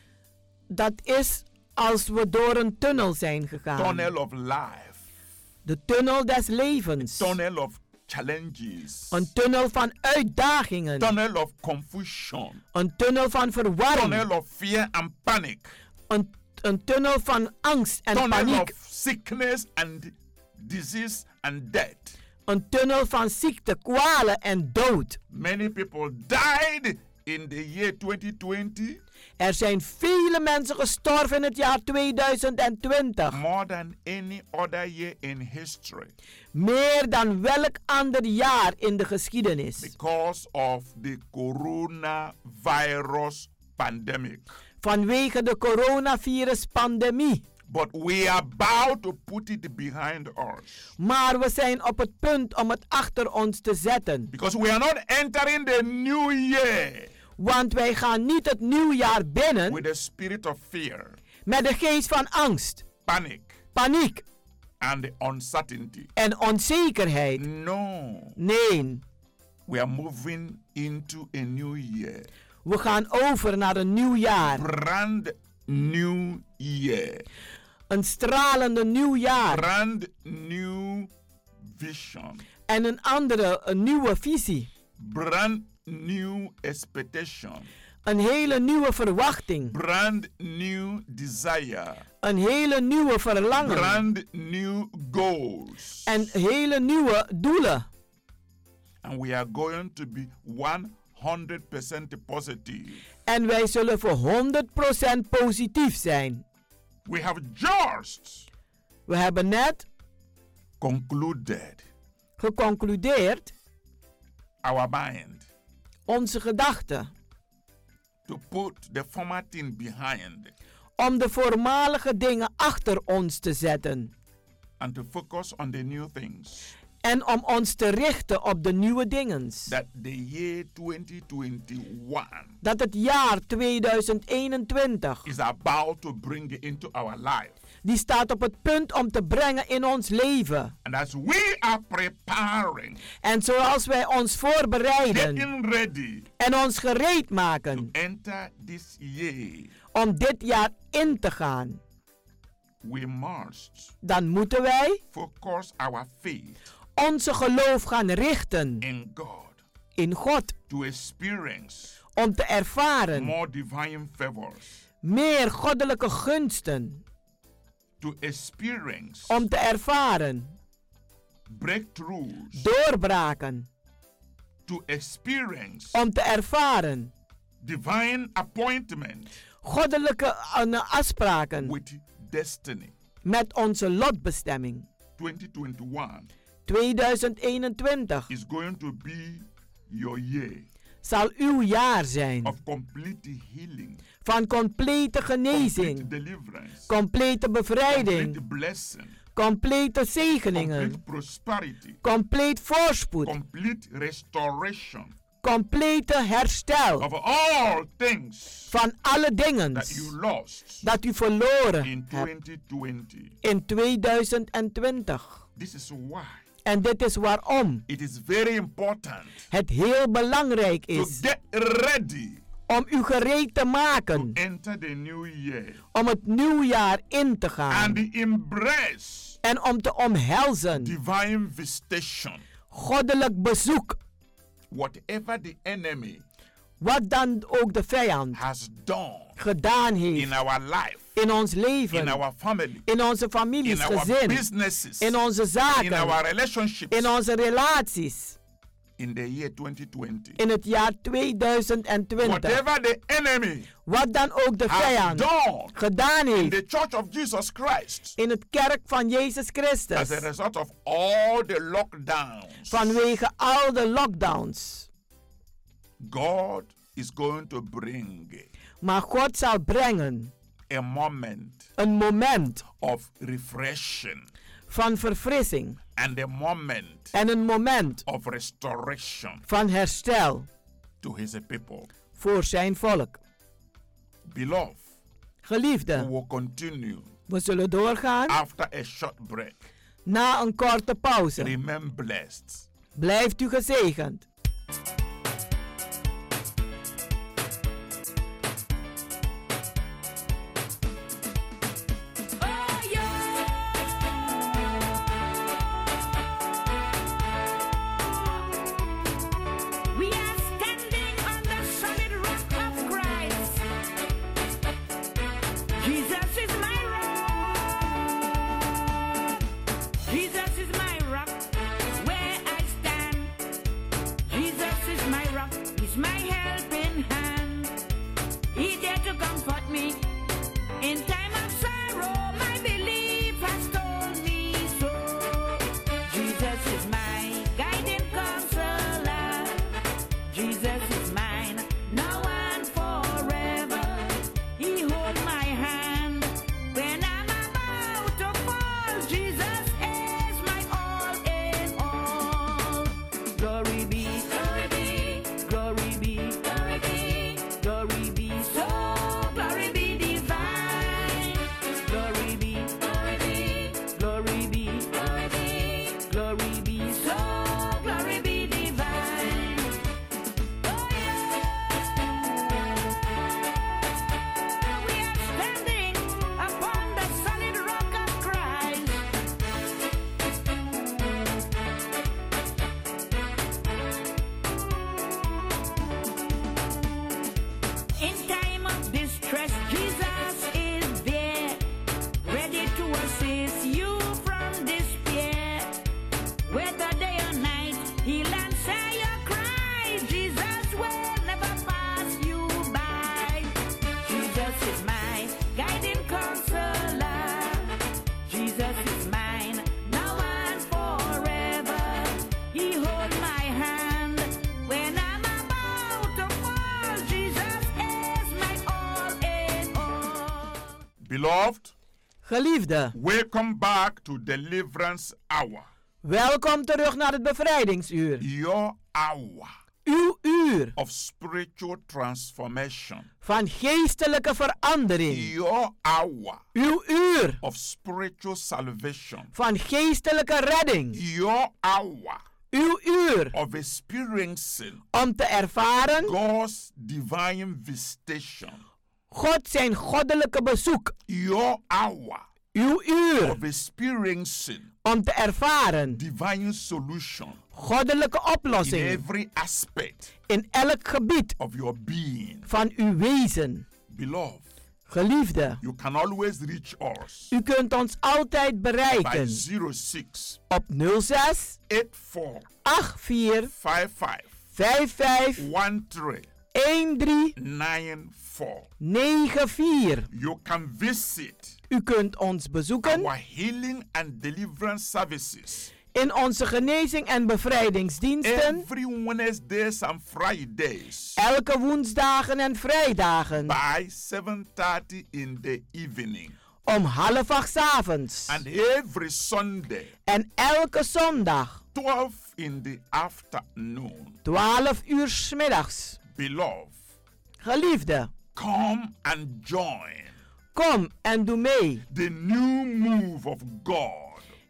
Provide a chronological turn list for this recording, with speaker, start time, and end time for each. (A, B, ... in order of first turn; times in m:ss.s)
0:00.7-0:04.1 A
0:03.8-0:05.0 B
0:05.6-0:07.3 A
0:07.0-0:09.3 B
0:09.1-0:11.1 A
0:11.0-0:12.6 B
0:12.7-0:14.3 A
0:13.9-0:15.7 B
0:16.1-0:18.7 A
0:18.1-0:22.2 B
0:22.5-0:25.2 A
0:25.3-0:29.0 B
0:29.4-0:33.4 A
0:33.3-0:36.1 B
0:36.5-0:39.9 A
0:39.8-0:44.5 B
0:44.8-0:47.4 A
0:47.7-0:50.9 B
0:51.0-0:54.3 A
0:54.3-0:57.1 B
0:57.4-0:59.8 A
0:59.7-1:01.2 B
1:01.5-1:02.8 A
1:03.1-1:03.6 B
1:03.8-1:04.2 A
1:04.8-1:06.1 B
1:06.2-1:07.4 A
1:07.4-1:08.4 B
1:08.4-1:09.0 A
1:09.7-1:12.3 B
1:12.6-1:14.6 A
1:14.4-1:17.3 B
1:17.9-1:19.6 A
1:19.5-1:21.1 B
1:21.6-1:22.4 B
1:22.7-1:24.7 A
1:25.0-1:27.7 B
1:28.1-1:29.8 A
1:29.7-1:32.0 B
1:32.2-1:34.0 A
1:33.6-1:36.2 B
1:36.1-1:37.9 A
1:39.0-1:43.0 B
1:43.3-1:46.4 A
1:47.1-1:48.5 B
1:49.1-1:49.9 A
1:50.8-1:51.8 B
1:52.4-1:53.5 A
1:54.6-1:55.5 B
1:56.1-1:57.1 A
1:58.3-2:00.5 B
2:01.0-2:04.1 A
2:04.8-2:06.7 B
2:07.0-2:09.7 A
2:09.7-2:12.6 B
2:12.6-2:15.3 A
2:15.2-2:17.6 B
2:17.8-2:20.7 A
2:20.8-2:23.0 B
2:23.2-2:25.5 A
2:25.1-2:26.3 B
2:26.4-2:27.9 A
2:27.7-2:29.7 B
2:29.9-2:31.8 A
2:32.8-2:33.9 B
2:34.0-2:35.0 A
2:35.1-2:36.6 B
2:37.0-2:38.8 A
2:38.8-2:39.6 B
2:40.0-2:40.5 A
2:40.7-2:42.0 B
2:42.2-2:43.3 A
2:43.1-2:44.8 B
2:45.0-2:47.0 A
2:48.0-2:49.4 B
2:49.3-2:50.6 A
2:51.5-2:52.6 B
2:52.6-2:53.7 A
2:54.7-2:56.0 B
2:55.9-2:57.1 A
2:57.6-2:59.3 B
2:59.6-3:01.7 A
3:01.6-3:02.9 B
3:03.2-3:04.9 A
3:05.2-3:06.3 B
3:06.7-3:08.3 A
3:08.3-3:10.7 B
3:11.0-3:12.6 A
3:12.4-3:14.0 B
3:14.2-3:16.1 A
3:15.5-3:16.9 B
3:16.9-3:18.4 A
3:17.9-3:19.2 B
3:19.4-3:21.0 A
3:20.5-3:22.0 B
3:22.0-3:23.4 A
3:23.2-3:25.1 B
3:25.4-3:27.1 A
3:27.0-3:28.7 B
3:28.7-3:30.1 A
3:29.7-3:30.8 B
3:30.8-3:32.3 A
3:31.8-3:33.4 B
3:33.4-3:35.4 A
3:35.6-3:36.4 B
3:36.6-3:37.8 A
3:37.9-3:39.4 B
3:39.5-3:41.2 A
3:40.9-3:42.4 B
3:42.7-3:44.4 A
3:44.1-3:45.8 B
3:45.9-3:48.0 A
3:47.7-3:49.4 B
3:49.4-3:50.9 A
3:50.8-3:52.4 B
3:52.7-3:54.0 A
3:54.7-3:56.2 B
3:56.8-3:58.4 A
3:58.3-3:59.4 B
3:59.4-4:00.3 A
4:00.1-4:01.1 B
4:01.2-4:02.2 A
4:01.9-4:02.9 B
4:02.9-4:04.4 A
4:03.6-4:05.2 B
4:05.0-4:06.2 A
4:05.8-4:07.1 B
4:06.9-4:08.4 A
4:09.0-4:10.4 B
4:10.4-4:12.6 A
4:12.2-4:13.7 B
4:13.9-4:16.5 A
4:14.7-4:15.8 B
4:16.4-4:18.2 B
4:18.2-4:20.2 A
4:20.0-4:23.0 B
4:22.7-4:24.9 A
4:26.0-4:28.5 B
4:28.8-4:30.3 A
4:30.7-4:31.7 B
4:31.8-4:32.6 A
4:32.8-4:34.3 B
4:34.7-4:35.8 A
4:36.0-4:37.1 B
4:37.1-4:38.0 A
4:38.1-4:39.4 B
4:39.5-4:40.5 A
4:41.0-4:41.9 B
4:42.2-4:43.2 A
4:44.3-4:44.8 B
4:45.4-4:46.1 A
4:45.9-4:47.1 B
4:47.3-4:48.4 A
4:48.3-4:49.7 B
4:50.1-4:51.5 A
4:51.4-4:52.7 B
4:53.0-4:54.3 A
5:02.4-5:03.6 C
5:08.0-5:08.4 C
5:09.9-5:13.6 C
5:15.8-5:18.2 C
5:20.1-5:23.4 C
5:24.3-5:27.8 C
5:28.5-5:30.2 C
5:30.8-6:09.8 C
6:10.6-6:11.5 C
6:14.6-6:19.1 C
6:28.0-6:31.7 C
6:32.2-6:35.8 C
6:36.5-7:00.7 C
7:01.0-7:01.7 B
7:02.2-7:03.0 A
7:03.0-7:05.7 B
7:06.0-7:08.2 A
7:08.2-7:09.5 B
7:09.8-7:10.7 A
7:10.8-7:13.1 B
7:13.2-7:15.3 A
7:15.1-7:16.4 B
7:16.6-7:17.4 A
7:17.4-7:19.3 B
7:19.3-7:21.0 A
7:20.9-7:22.2 B
7:22.5-7:23.3 A
7:23.3-7:24.8 B
7:24.9-7:26.1 A
7:26.0-7:28.6 B
7:29.1-7:31.0 A
7:31.1-7:32.2 B
7:32.5-7:33.4 A
7:33.2-7:34.7 B
7:34.8-7:36.0 A
7:36.0-7:37.4 B
7:37.5-7:39.0 A
7:38.6-7:40.1 B
7:40.3-7:41.4 A
7:41.4-7:42.5 B
7:42.5-7:43.7 A
7:43.9-7:44.4 B
7:44.9-7:45.6 A
7:45.6-7:47.3 B
7:47.3-7:49.4 A
7:48.9-7:50.4 B
7:50.5-7:51.6 A
7:51.7-7:52.5 B
7:52.6-7:53.5 A
7:53.5-7:54.3 B
7:54.6-7:55.4 A
7:55.4-7:56.3 B
7:56.5-7:57.4 A
7:57.4-7:58.7 B
7:58.8-8:00.1 A
8:00.1-8:01.6 B
8:01.7-8:03.1 A
8:02.8-8:05.7 B
8:05.9-8:08.7 A
8:08.2-8:11.2 B
8:11.2-8:13.6 A
8:13.4-8:16.4 B
8:16.7-8:18.4 A
8:18.3-8:19.9 B
8:20.1-8:21.6 A
8:21.8-8:24.2 B
8:24.2-8:26.0 A
8:26.1-8:26.7 B
8:27.4-8:28.1 A
8:28.4-8:30.2 B
8:30.6-8:31.8 A
8:31.9-8:34.3 B